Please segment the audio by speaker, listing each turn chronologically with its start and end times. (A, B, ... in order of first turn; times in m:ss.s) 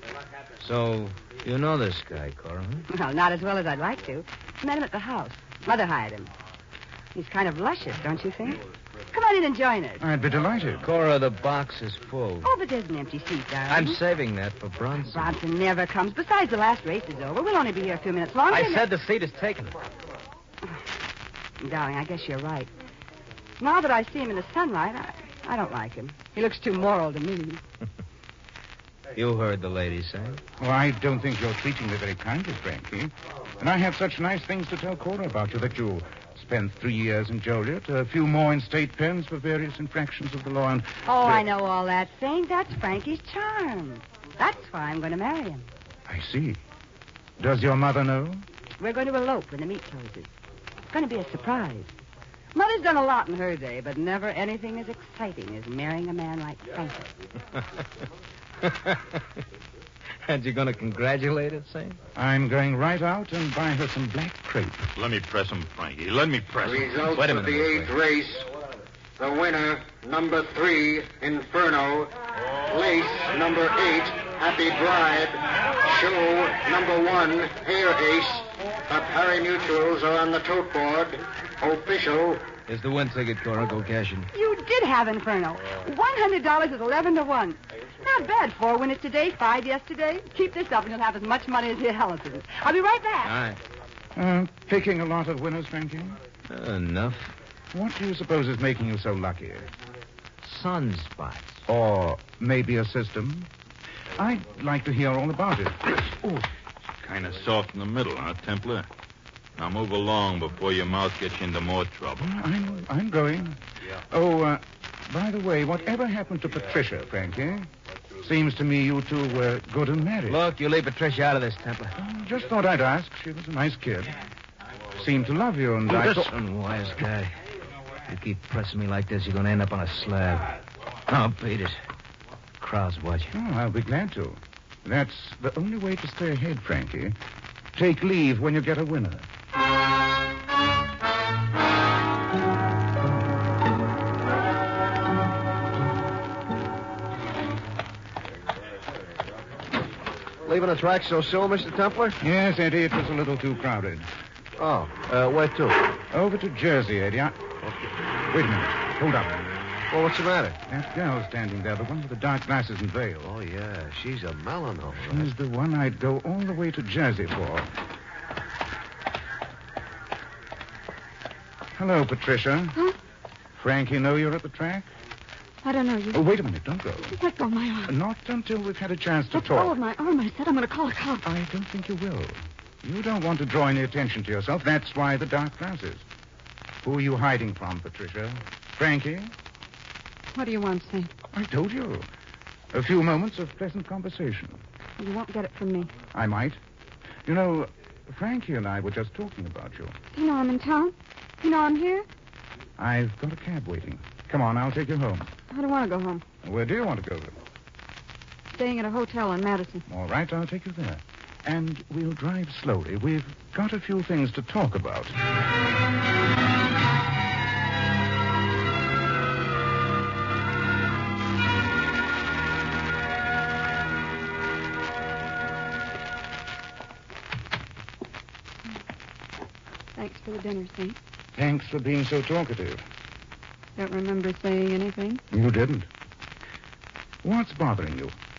0:00.6-0:02.9 A
0:02.9-0:06.3 B
0:07.1-0:10.0 B
0:10.0-0:10.9 C
0:10.8-0:12.4 A
0:12.4-0:14.0 B
0:13.7-0:15.4 A
0:15.1-0:18.9 B
0:18.5-0:19.8 A
0:21.6-0:22.7 B
0:23.6-0:27.6 B
0:29.1-0:30.4 A
0:30.6-0:41.0 C
0:41.0-0:45.6 B
0:46.1-0:46.6 C
0:47.4-0:48.4 C
0:48.8-0:50.3 B
0:50.9-0:51.9 B
0:52.5-0:57.1 B
0:58.6-0:59.2 A
1:00.3-1:02.0 A
1:02.2-1:04.9 C
1:05.0-1:07.0 D
1:06.6-1:08.5 E
1:07.0-1:08.0 A
1:09.2-1:12.1 E
1:12.7-1:22.5 E
1:22.7-1:24.3 A
1:24.3-1:33.4 B
1:33.2-1:33.6 A
1:34.1-1:36.2 C
1:36.5-1:37.3 A
1:37.7-1:39.7 C
1:40.4-1:41.6 A
1:41.7-1:43.5 C
1:44.2-1:46.5 C
1:47.0-1:48.9 D
1:49.6-1:52.2 D
1:52.2-1:57.7 C
1:58.2-2:00.4 C
2:00.3-2:01.9 A
2:02.0-2:04.2 C
2:05.0-2:06.3 C
2:05.9-2:07.3 A
2:08.1-2:10.5 A
2:11.1-2:11.8 A
2:12.6-2:13.3 A
2:13.3-2:17.2 C
2:17.7-2:19.3 C
2:30.4-2:32.2 F
2:32.2-2:34.1 C
2:34.6-2:35.9 F
2:36.1-2:37.4 C
2:38.3-2:39.3 C
2:39.9-2:40.6 F
2:40.7-2:43.3 C
2:43.2-2:45.3 F
2:44.9-2:47.7 C
2:51.7-2:52.8 C
2:53.5-2:54.9 C
2:55.6-2:56.2 G
2:56.1-2:57.2 C
2:57.1-2:57.9 G
2:57.8-2:59.8 C
2:59.3-3:01.2 G
3:01.2-3:06.0 C
3:06.8-3:09.3 C
3:10.3-3:11.1 G
3:11.3-3:12.1 C
3:12.7-3:14.6 C
3:15.0-3:15.9 G
3:16.1-3:16.6 C
3:17.2-3:20.0 C
3:20.1-3:22.1 G
3:22.8-3:25.3 C
3:25.5-3:26.2 G
3:26.4-3:27.4 C
3:28.5-3:29.8 G
3:29.8-3:35.2 C
3:50.0-3:51.0 G
3:51.4-3:52.8 C
3:53.8-3:55.2 G
3:55.3-3:55.9 C
3:57.2-3:58.1 C